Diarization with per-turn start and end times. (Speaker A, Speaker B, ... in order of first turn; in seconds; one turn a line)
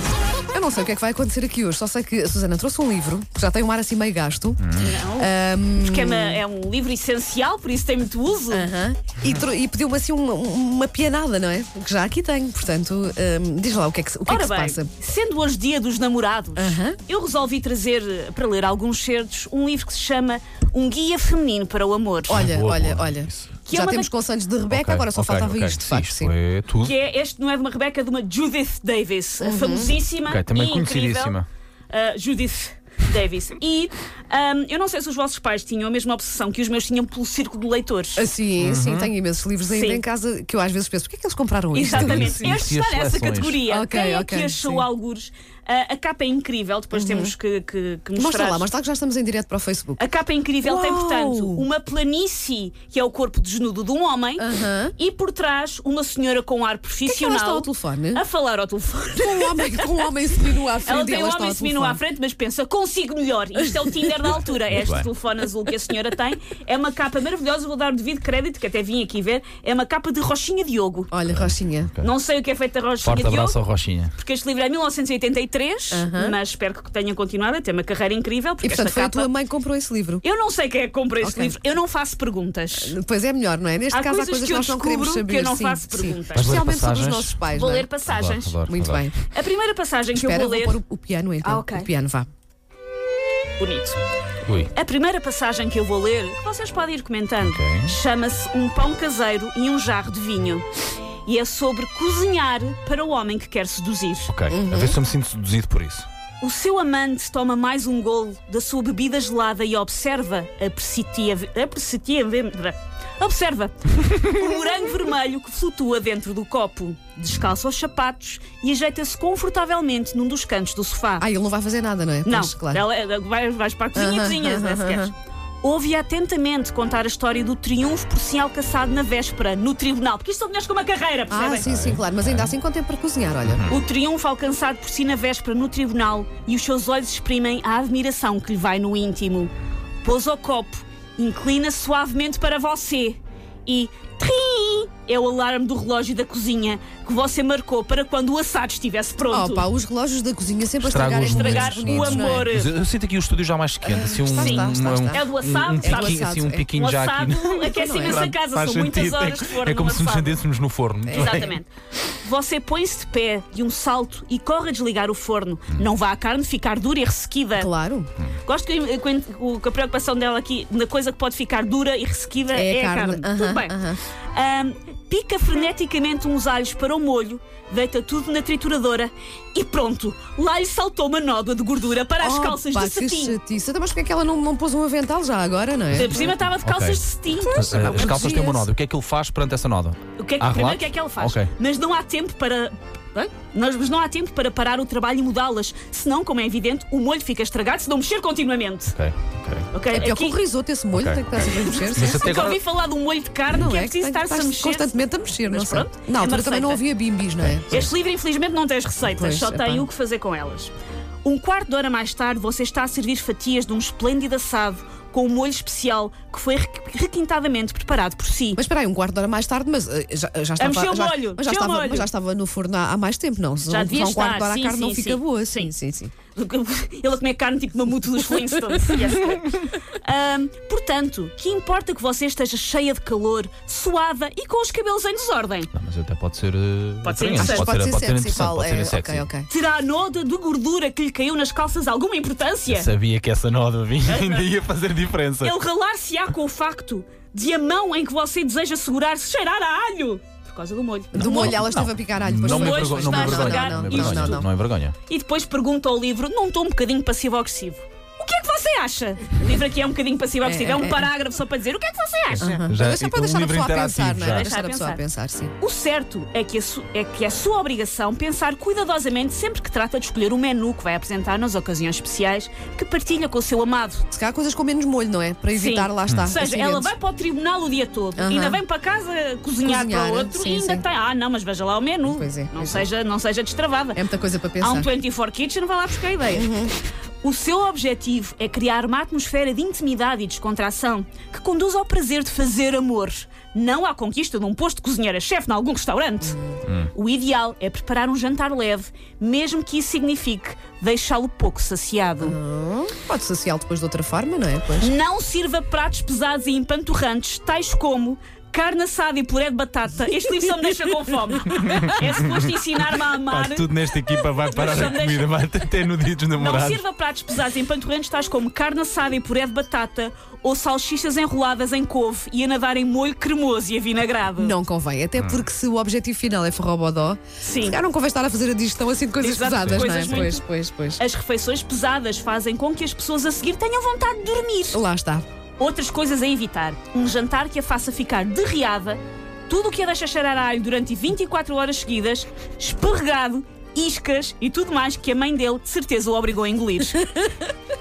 Speaker A: 0.5-6.4
Speaker B: 4.6-4.9
Speaker C: 4.8-8.7
Speaker A: 8.5-14.9
Speaker C: 14.3-22.5
Speaker A: 16.6-17.0
Speaker A: 22.3-26.3
Speaker B: 22.3-23.5
Speaker C: 23.7-24.1
Speaker B: 24.7-26.9
Speaker C: 26.8-31.4
Speaker A: 29.4-30.0
Speaker B: 30.2-31.4
Speaker C: 31.9-38.2
Speaker A: 38.1-42.6
Speaker B: 38.6-39.1
Speaker C: 39.7-40.0
Speaker C: 41.7-48.7
Speaker B: 41.9-43.6
Speaker A: 43.6-44.9
Speaker A: 46.9-47.3
Speaker A: 48.1-50.0
Speaker C: 50.0-60.1
Speaker A: 50.6-51.6
Speaker A: 54.4-54.9
Speaker A: 57.1-58.2
Speaker A: 59.1-62.0
Speaker C: 60.8-71.1
Speaker B: 64.7-65.1
Speaker A: 71.1-71.9
Speaker B: 71.3-72.1
Speaker C: 72.0-73.6
Speaker B: 73.0-74.1
Speaker C: 74.1-79.3
Speaker A: 75.9-76.4
Speaker A: 78.6-80.2
Speaker C: 80.2-82.9
Speaker A: 81.2-81.7
Speaker A: 82.7-87.9
Speaker C: 83.9-86.6
Speaker B: 86.3-87.4
Speaker C: 87.5-88.5
Speaker B: 88.0-89.1
Speaker A: 88.7-89.1
Speaker C: 89.3-90.8
Speaker A: 90.1-92.3
Speaker C: 91.4-91.9
Speaker C: 93.6-94.0
Speaker B: 94.5-94.7
Speaker C: 94.7-100.7
Speaker B: 97.4-97.9
Speaker C: 101.2-104.3
Speaker B: 104.3-106.0
Speaker A: 104.5-105.0
Speaker C: 106.4-121.3
Speaker A: 121.2-122.8
Speaker C: 122.2-131.7
Speaker A: 123.9-125.1
Speaker A: 131.3-133.6
Speaker B: 131.6-132.5
Speaker B: 133.4-133.8
Speaker C: 133.7-139.5
Speaker C: 140.0-149.6
Speaker A: 149.3-152.5
Speaker B: 150.8-161.5
Speaker C: 151.2-152.7
Speaker A: 153.8-155.2
Speaker C: 154.4-160.4
Speaker A: 155.8-156.7
Speaker A: 157.7-158.2
Speaker A: 161.1-161.6
Speaker C: 161.1-161.7
Speaker C: 162.2-167.7
Speaker A: 167.6-168.1
Speaker C: 168.4-173.8
Speaker A: 172.5-174.0
Speaker C: 174.3-183.4
Speaker A: 182.2-186.4
Speaker B: 185.9-191.5
Speaker C: 185.9-188.6
Speaker A: 187.5-188.6
Speaker C: 190.2-199.0
Speaker B: 198.9-200.1
Speaker C: 199.7-200.4
Speaker A: 199.9-202.3
Speaker B: 200.9-202.6
Speaker C: 201.8-206.8
Speaker A: 203.5-207.9
Speaker C: 207.7-210.7
Speaker A: 209.0-209.9
Speaker C: 211.2-218.6
Speaker A: 218.5-226.1
Speaker C: 220.6-222.1
Speaker C: 223.7-225.7
Speaker C: 226.3-235.7
Speaker B: 235.7-239.2
Speaker C: 237.0-237.7
Speaker A: 237.4-239.5
Speaker C: 239.5-242.9
Speaker B: 242.7-245.5
Speaker C: 244.1-244.5
Speaker C: 245.4-251.6
Speaker A: 251.1-254.4
Speaker B: 251.1-254.9
Speaker C: 252.4-254.4
Speaker C: 255.1-262.6
Speaker A: 260.4-261.1
Speaker B: 262.3-264.5
Speaker A: 262.4-265.5
Speaker C: 264.2-265.0
Speaker C: 265.6-274.0
Speaker A: 274.1-276.9
Speaker C: 275.5-284.0
Speaker A: 278.1-278.6
Speaker A: 279.6-280.8
Speaker A: 282.0-282.9
Speaker A: 283.9-284.9
Speaker C: 284.6-286.5
Speaker A: 286.3-286.7
Speaker C: 287.2-296.4
Speaker A: 296.2-296.6
Speaker C: 296.9-302.4
Speaker A: 302.2-304.9
Speaker C: 304.8-313.7
Speaker B: 311.6-312.4
Speaker B: 313.3-316.8
Speaker C: 314.2-315.3
Speaker C: 316.3-324.5
Speaker A: 324.4-331.0
Speaker B: 325.2-325.4
Speaker C: 327.4-327.8
Speaker C: 329.2-330.4
Speaker B: 329.5-330.3
Speaker C: 331.0-334.8
Speaker A: 334.7-335.2
Speaker C: 335.6-347.2